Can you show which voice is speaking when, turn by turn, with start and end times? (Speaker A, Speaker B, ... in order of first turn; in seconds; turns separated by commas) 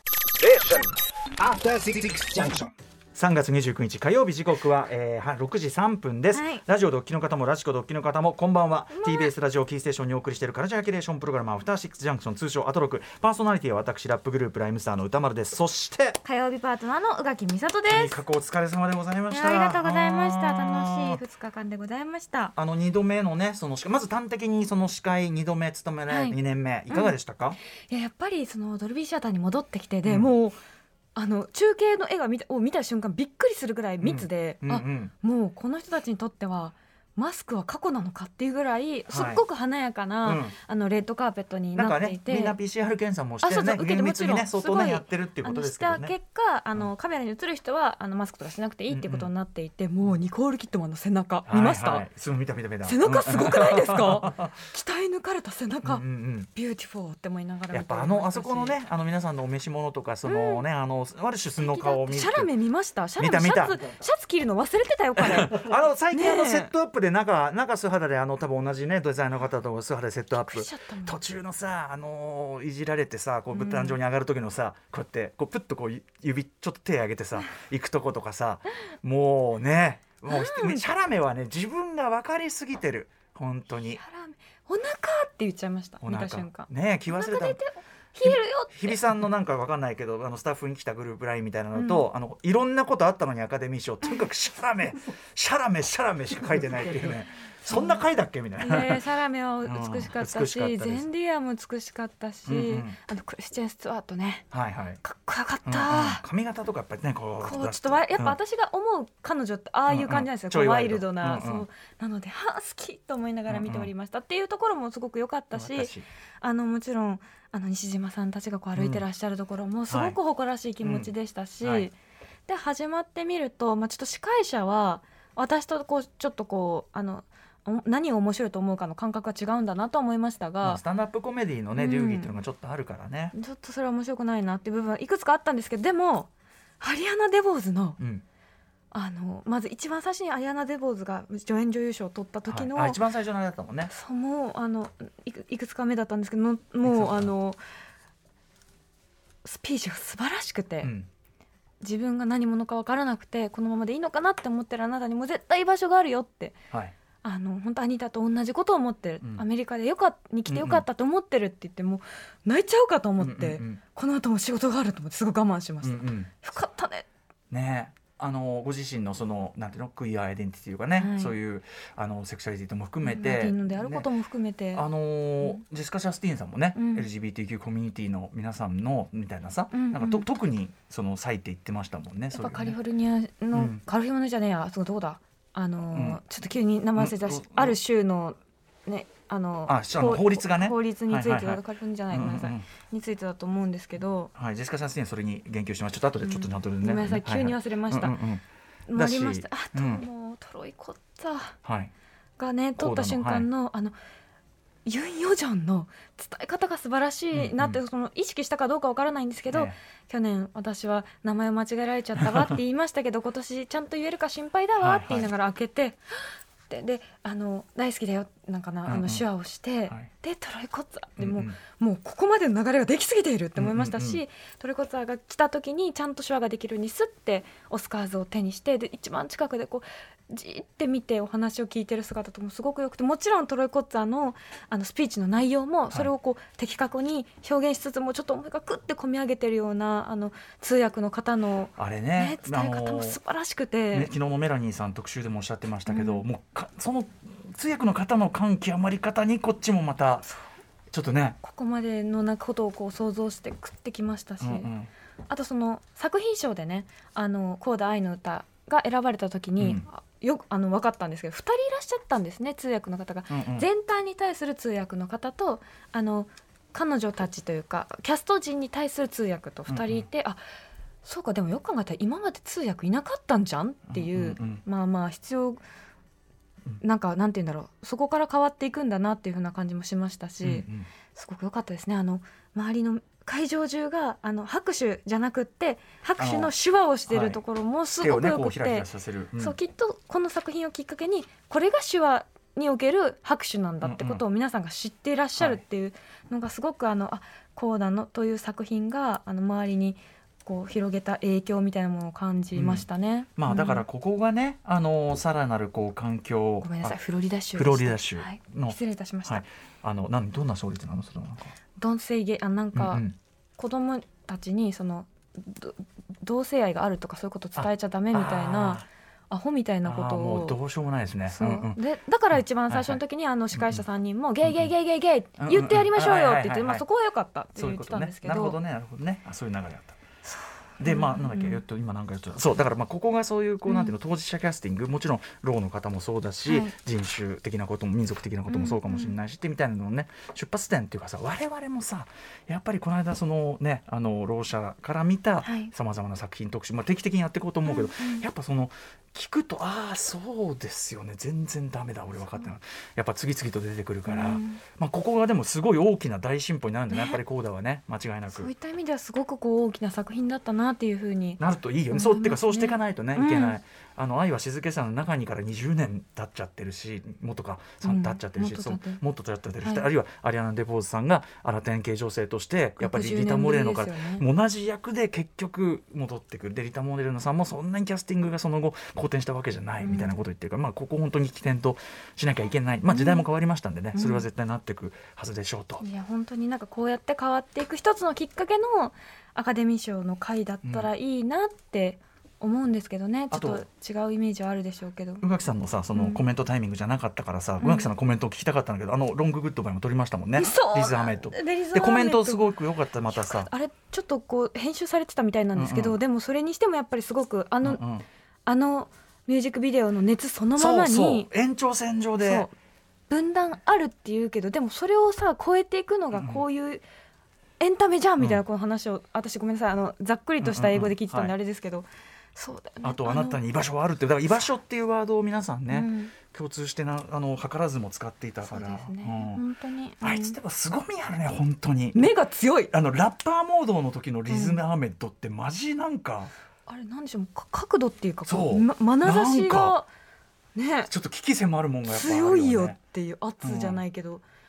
Speaker A: 0.4-2.7, Speaker B: 3.1-16.2, Speaker C: 6.3-6.6, Speaker C: 8.9-9.3, Speaker C: 16.2-18.2, Speaker B: 17.9-21.2, Speaker C: 19.3-22.6, Speaker B: 22.6-27.6, Speaker C: 26.1-26.4, Speaker C: 27.9-30.6, Speaker B: 30.1-30.3, Speaker C: 31.1-42.6, Speaker B: 34.0-35.1, Speaker B: 39.1-39.4, Speaker B: 40.2-40.6, Speaker B: 41.8-46.1, Speaker C: 43.4-52.0, Speaker B: 48.9-49.3, Speaker B: 51.5-54.5, Speaker C: 52.8-58.8, Speaker B: 55.8-56.5, Speaker B: 57.7-62.5, Speaker C: 60.2-60.6, Speaker C: 61.6-66.7, Speaker B: 63.2-64.0, Speaker B: 65.2-84.0, Speaker C: 70.4-71.2, Speaker C: 73.5-74.0, Speaker C: 80.3-80.8, Speaker C: 83.8-89.0, Speaker B: 86.0-87.6, Speaker B: 88.2-99.0, Speaker C: 91.8-92.0, Speaker C: 97.7-98.0, Speaker C: 98.6-104.5, Speaker B: 99.7-101.1, Speaker B: 102.5-103.0, Speaker B: 104.5-105.0, Speaker C: 105.0-106.2, Speaker B: 105.7-108.4, Speaker C: 107.4-122.0, Speaker B: 109.9-111.7, Speaker B: 113.5-113.9, Speaker B: 115.5-116.1, Speaker B: 118.8-119.0, Speaker B: 119.9-120.2, Speaker B: 120.8-121.9, Speaker C: 122.5-130.8, Speaker B: 130.6-133.3, Speaker C: 131.8-132.3, Speaker C: 133.3-138.0, Speaker B: 138.0-138.2, Speaker C: 138.9-143.0, Speaker B: 142.5-143.9, Speaker C: 143.9-147.6, Speaker B: 146.8-147.3, Speaker C: 149.4-150.9, Speaker B: 150.8-151.1, Speaker C: 151.8-156.6, Speaker C: 157.2-167.1, Speaker B: 160.5-160.8, Speaker B: 163.2-163.8, Speaker B: 165.8-166.4, Speaker B: 167.5-174.1, Speaker C: 171.0-171.4, Speaker C: 173.0-174.8, Speaker B: 174.7-182.8, Speaker C: 176.8-177.1, Speaker C: 179.7-180.3, Speaker C: 182.3-194.3, Speaker B: 183.5-183.8, Speaker B: 185.9-186.2, Speaker B: 187.0-187.8, Speaker B: 189.7-192.7, Speaker B: 194.3-200.0, Speaker C: 196.2-198.2, Speaker C: 198.9-201.6, Speaker B: 201.6-201.9, Speaker C: 202.4-203.9, Speaker B: 202.8-203.5, Speaker C: 204.9-216.0, Speaker B: 207.3-207.8, Speaker B: 209.5-209.8, Speaker B: 212.2-212.5, Speaker B: 214.8-215.3, Speaker C: 216.7-244.1, Speaker B: 218.9-219.2, Speaker B: 221.2-221.6, Speaker B: 223.6-224.2, Speaker B: 241.8-243.2, Speaker B: 243.9-250.3, Speaker C: 245.9-246.2, Speaker B: 250.9-251.4, Speaker C: 251.4-254.7, Speaker B: 254.4-254.9, Speaker C: 255.3-270.4, Speaker B: 259.6-259.9, Speaker B: 263.3-263.7, Speaker B: 269.7-270.1, Speaker C: 271.0-275.6, Speaker B: 273.9-274.6, Speaker C: 276.8-303.8, Speaker B: 280.4-280.9, Speaker B: 286.2-286.5, Speaker B: 287.1-287.4, Speaker B: 288.0-289.6, Speaker B: 293.8-294.2, Speaker B: 302.6-307.0, Speaker C: 306.6-309.4, Speaker B: 307.6-311.5, Speaker C: 311.8-313.0, Speaker B: 312.7-313.2, Speaker C: 313.6-320.6, Speaker B: 317.6-318.9, Speaker B: 319.8-321.8, Speaker C: 321.3-328.6, Speaker B: 322.7-323.0, Speaker B: 323.5-323.8, Speaker B: 325.4-326.8, Speaker B: 327.6-330.0, Speaker C: 330.2-331.6, Speaker B: 330.8-358.5, Speaker C: 333.7-333.9, Speaker C: 336.5-336.7, Speaker C: 338.5-339.1, Speaker C: 345.4-345.7, Speaker C: 347.7-348.2, Speaker C: 354.1-354.6, Speaker C: 356.9-357.2, Speaker C: 358.3-363.6, Speaker B: 361.4-385.8, Speaker C: 367.8-369.0, Speaker C: 372.8-374.2, Speaker C: 379.8-380.1, Speaker C: 382.9-383.2, Speaker C: 383.9-384.2, Speaker C: 385.8-395.2, Speaker B: 390.6-390.9, Speaker B: 393.3-393.6, Speaker B: 395.2-403.5, Speaker C: 395.9-396.2, Speaker C: 397.6-397.9, Speaker C: 400.4-402.5, Speaker C: 403.1-407.8, Speaker B: 405.6-406.0, Speaker B: 407.6-408.1, Speaker C: 408.5-411.3, Speaker B: 410.6-412.5, Speaker C: 412.2-412.5, Speaker C: 413.1-416.8, Speaker B: 416.1-416.4, Speaker C: 417.6-423.4, Speaker B: 420.4-421.3, Speaker B: 422.8-429.4, Speaker C: 425.7-426.1, Speaker C: 428.5-430.4, Speaker B: 430.0-432.1, Speaker C: 431.9-432.7, Speaker B: 432.7-436.3, Speaker C: 434.3-434.6, Speaker C: 436.7-439.9, Speaker B: 438.3-439.8, Speaker C: 440.6-440.9, Speaker B: 440.9-442.8, Speaker C: 441.9-444.2, Speaker B: 443.4-443.8